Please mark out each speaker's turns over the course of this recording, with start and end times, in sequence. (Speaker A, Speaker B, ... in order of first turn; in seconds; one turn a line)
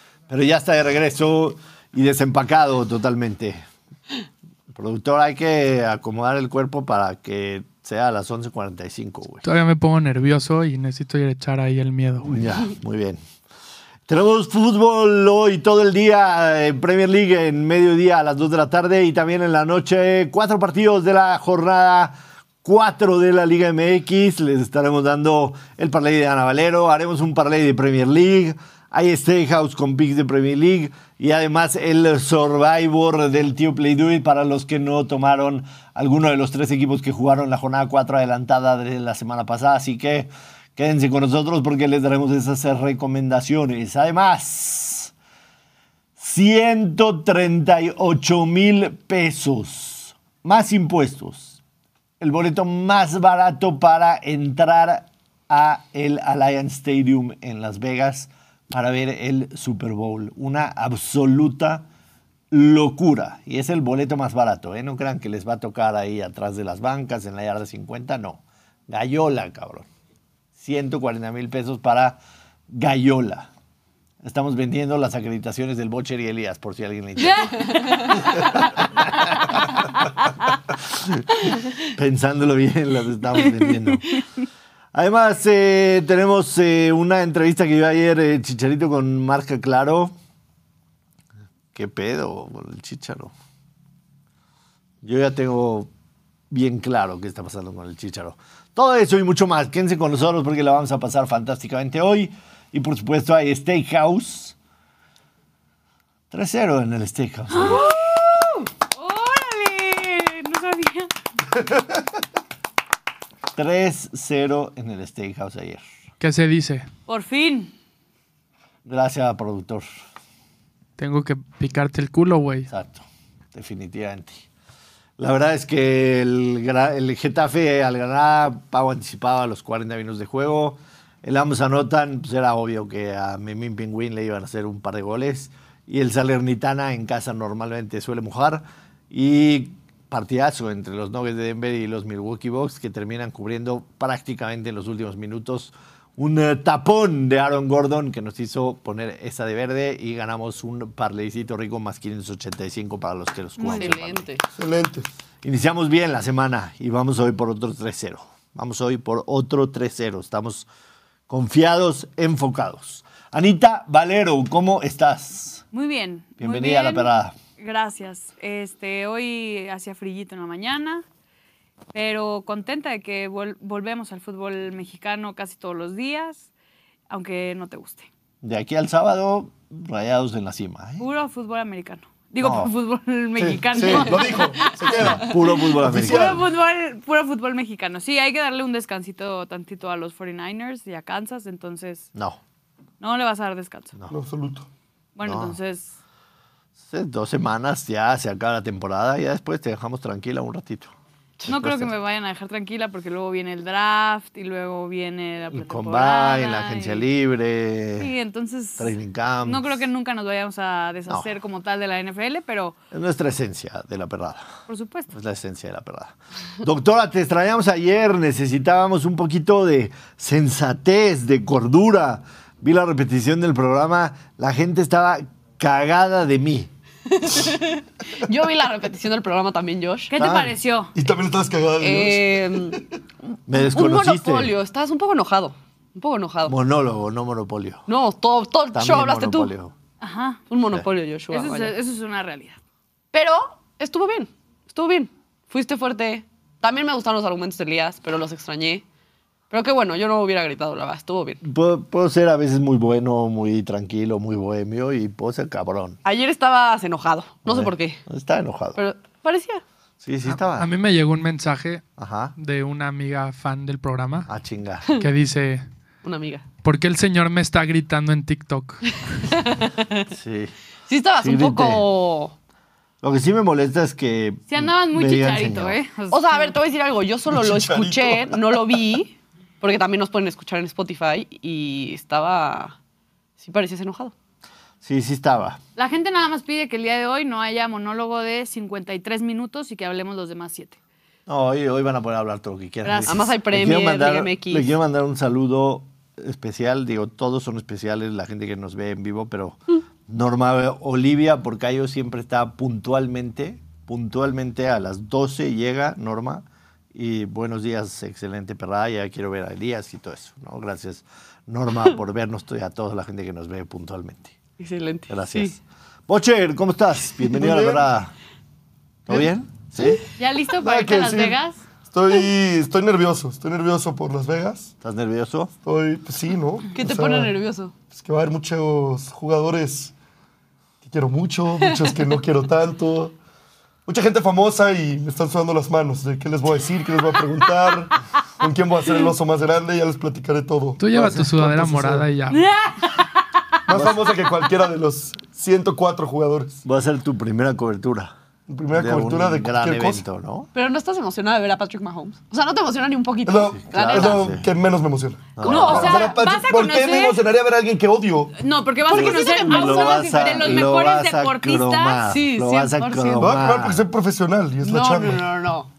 Speaker A: 0.3-3.6
Speaker A: 4.7-9.4
Speaker B: 9.4-12.5
Speaker A: 12.2-13.2
Speaker A: 14.1-45.1
Speaker A: 46.2-51.6
Speaker A: 52.2-61.9
Speaker A: 62.5-69.9
Speaker A: 70.6-73.5
Speaker A: 74.2-79.6
Speaker C: 77.2-77.8
Speaker A: 80.9-81.2
Speaker A: 81.8-84.2
Speaker A: 84.9-90.1
Speaker A: 91.7-93.3
Speaker A: 95.0-95.9
Speaker A: 96.5-104.5
Speaker A: 106.3-107.8
Speaker C: 107.5-111.1
Speaker A: 113.5-115.8
Speaker B: 116.2-116.8
Speaker C: 117.1-117.7
Speaker A: 118.8-119.9
Speaker B: 121.0-122.7
Speaker A: 122.7-124.4
Speaker A: 125.2-154.3
Speaker C: 153.6-154.0
Speaker D: 153.7-154.4
Speaker E: 154.5-155.1
Speaker A: 155.4-160.7
Speaker A: 161.3-165.6
Speaker C: 165.7-171.0
Speaker A: 166.4-167.3
Speaker C: 171.9-176.4
Speaker C: 177.1-178.1
Speaker A: 178.4-181.1
Speaker C: 181.0-185.3
Speaker A: 182.4-182.7
Speaker E: 183.4-186.4
Speaker A: 183.8-184.2
Speaker A: 184.8-186.4
Speaker C: 185.8-192.1
Speaker C: 193.0-193.9
Speaker E: 194.1-194.7
Speaker C: 195.2-195.9
Speaker A: 195.2-195.6
Speaker A: 196.9-200.9
Speaker C: 201.5-207.1
Speaker A: 201.5-201.9
Speaker A: 205.5-208.1
Speaker C: 208.0-208.9
Speaker A: 208.8-209.7
Speaker C: 209.4-212.7
Speaker A: 212.9-214.5
Speaker C: 214.7-215.1
Speaker A: 215.1-226.7
Speaker D: 227.1-230.1
Speaker C: 230.1-230.9
Speaker A: 230.1-230.5
Speaker E: 230.9-232.8
Speaker D: 231.8-232.8
Speaker A: 233.5-234.5
Speaker D: 233.5-236.5
Speaker A: 236.4-237.8
Speaker D: 237.9-239.5
Speaker A: 238.7-239.7
Speaker C: 240.0-240.4
Speaker D: 240.5-241.7
Speaker C: 241.3-242.6
Speaker D: 243.1-248.8
Speaker D: 249.5-251.4
Speaker A: 251.4-256.0
Speaker D: 256.0-258.0
Speaker A: 257.4-258.8
Speaker D: 258.8-259.6
Speaker A: 260.0-260.7
Speaker B: 260.6-261.8
Speaker A: 262.0-262.3
Speaker B: 262.4-264.3
Speaker A: 264.3-264.9
Speaker B: 265.0-265.6
Speaker D: 266.0-266.4
Speaker B: 266.6-268.9
Speaker D: 269.3-270.1
Speaker A: 270.1-270.5
Speaker D: 270.9-272.3
Speaker A: 271.1-271.8
Speaker A: 273.0-275.8
Speaker C: 274.5-276.6
Speaker D: 276.1-282.8
Speaker E: 277.3-278.6
Speaker D: 283.4-284.1
Speaker A: 284.8-285.6
Speaker C: 285.8-290.8
Speaker A: 291.3-314.4
Speaker C: 292.8-293.1
Speaker D: 293.1-294.7
Speaker D: 314.6-315.5
Speaker A: 315.1-318.1
Speaker E: 317.3-317.9
Speaker A: 319.1-320.0
Speaker C: 320.2-321.6
Speaker E: 320.6-321.4
Speaker E: 321.9-324.7
Speaker A: 324.8-325.5
Speaker E: 325.6-327.3
Speaker D: 326.7-327.7
Speaker E: 327.9-329.9
Speaker E: 330.8-333.1
Speaker E: 333.9-340.8
Speaker B: 340.8-342.4
Speaker A: 340.9-342.0
Speaker E: 341.5-342.0
Speaker C: 342.3-343.1
Speaker E: 343.7-346.6
Speaker A: 343.7-344.0
Speaker A: 346.6-348.1
Speaker E: 348.5-350.0
Speaker A: 348.7-350.5
Speaker D: 350.5-354.2
Speaker E: 353.2-358.3
Speaker A: 353.6-354.5
Speaker A: 355.4-356.0
Speaker D: 355.4-356.1
Speaker C: 355.6-357.2
Speaker C: 358.4-362.1
Speaker D: 358.9-360.7
Speaker A: 358.9-363.9
Speaker D: 362.1-363.3
Speaker E: 363.2-365.2
Speaker D: 364.6-365.7